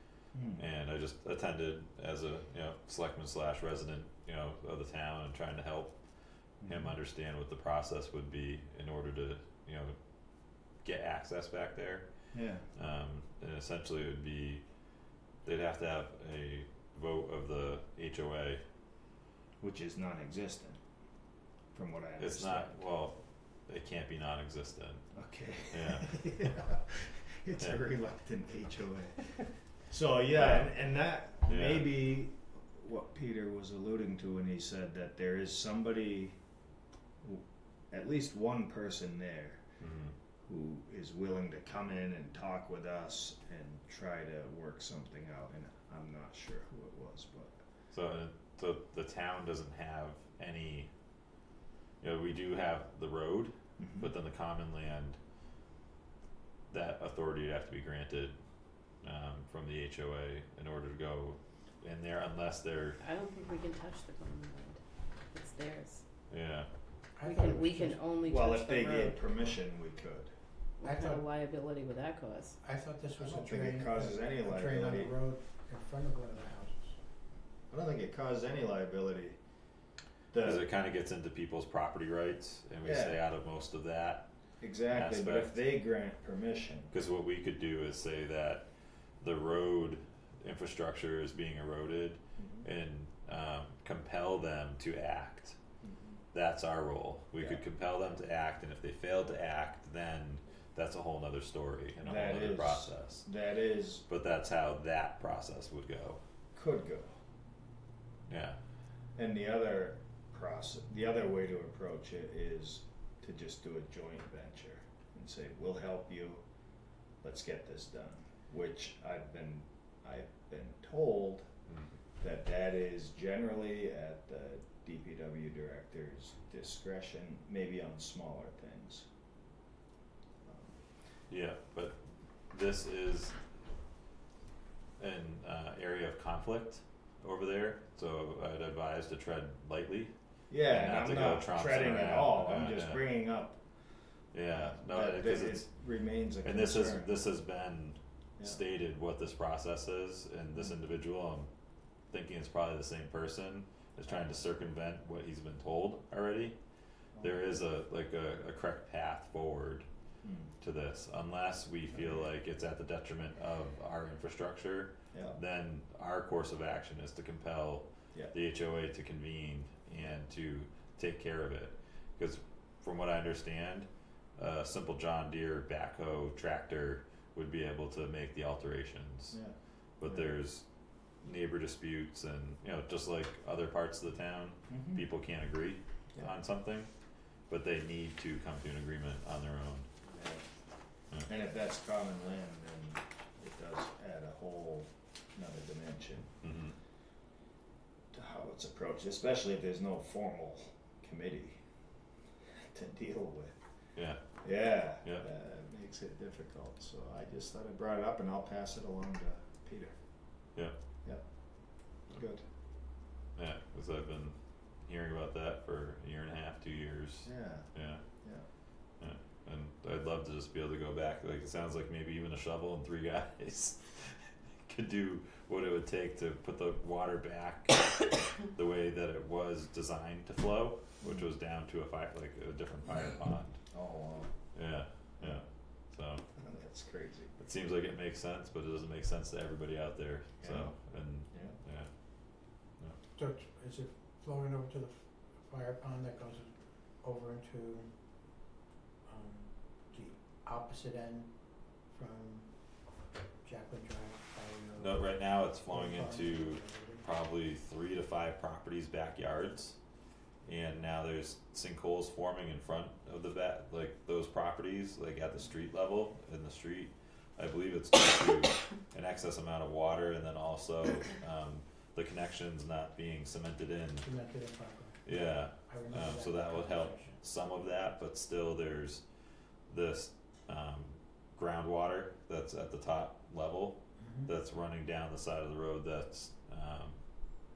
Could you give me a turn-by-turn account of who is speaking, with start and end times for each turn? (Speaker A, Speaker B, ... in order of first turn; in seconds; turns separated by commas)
Speaker A: 0.3-0.6, Speaker B: 0.6-6.0, Speaker A: 6.6-6.9, Speaker B: 6.7-10.0, Speaker B: 10.8-12.1, Speaker A: 12.3-12.7, Speaker B: 12.8-14.6, Speaker B: 15.4-18.6, Speaker A: 19.6-20.8, Speaker A: 21.7-22.7, Speaker B: 22.2-25.1, Speaker A: 25.1-29.4, Speaker B: 25.7-26.2, Speaker A: 29.9-36.4, Speaker B: 30.4-30.7, Speaker B: 31.5-32.0, Speaker A: 37.2-39.6, Speaker B: 39.8-40.1, Speaker A: 40.5-47.5, Speaker B: 47.9-50.9, Speaker B: 52.0-55.2, Speaker A: 53.8-54.1, Speaker B: 56.7-58.4, Speaker B: 59.0-63.0, Speaker C: 63.0-66.0, Speaker B: 66.3-66.7, Speaker D: 67.2-68.0, Speaker C: 67.2-69.2, Speaker A: 68.2-70.3, Speaker C: 70.8-72.6, Speaker D: 70.8-71.2, Speaker D: 72.6-77.0, Speaker A: 73.2-75.2, Speaker A: 77.7-79.4, Speaker A: 80.3-80.7, Speaker B: 80.4-84.3, Speaker A: 82.8-83.2, Speaker A: 84.6-86.9, Speaker B: 84.9-85.6, Speaker B: 86.9-88.7, Speaker B: 89.2-95.6, Speaker A: 92.4-92.7, Speaker A: 95.8-96.2, Speaker B: 96.3-103.3, Speaker A: 102.0-104.0, Speaker B: 104.1-106.2, Speaker A: 106.5-107.1, Speaker B: 108.3-108.6, Speaker A: 109.2-116.4, Speaker A: 117.2-121.5, Speaker B: 121.7-122.0, Speaker A: 122.2-129.1, Speaker A: 130.4-130.8, Speaker B: 131.3-132.0, Speaker B: 132.5-133.4, Speaker B: 135.0-140.1, Speaker A: 140.5-143.6, Speaker B: 140.7-143.0, Speaker B: 144.3-145.7, Speaker A: 144.5-147.2, Speaker B: 146.4-151.5, Speaker B: 152.1-156.6, Speaker A: 157.2-157.5, Speaker B: 157.2-159.9, Speaker A: 160.2-160.5, Speaker B: 160.6-179.4, Speaker A: 179.3-180.3, Speaker B: 180.0-180.7, Speaker B: 181.2-186.9, Speaker A: 184.7-185.1, Speaker B: 187.5-189.9, Speaker A: 190.1-190.5, Speaker A: 191.3-196.3, Speaker B: 196.4-196.8, Speaker A: 198.1-201.6, Speaker A: 202.6-203.6, Speaker B: 204.0-204.2, Speaker A: 204.4-209.9, Speaker A: 212.1-212.4, Speaker B: 213.4-218.0, Speaker A: 217.2-217.7, Speaker B: 219.0-233.6, Speaker A: 231.0-231.3, Speaker A: 233.7-234.3, Speaker B: 234.5-236.2, Speaker A: 236.3-237.3, Speaker B: 237.4-241.9, Speaker A: 240.4-240.7, Speaker A: 241.3-241.6, Speaker D: 243.2-247.9, Speaker D: 249.1-252.5, Speaker D: 253.4-257.1, Speaker B: 254.8-259.8, Speaker B: 260.4-274.1, Speaker D: 274.0-277.2, Speaker B: 275.1-279.0, Speaker B: 279.7-287.0, Speaker D: 284.0-284.3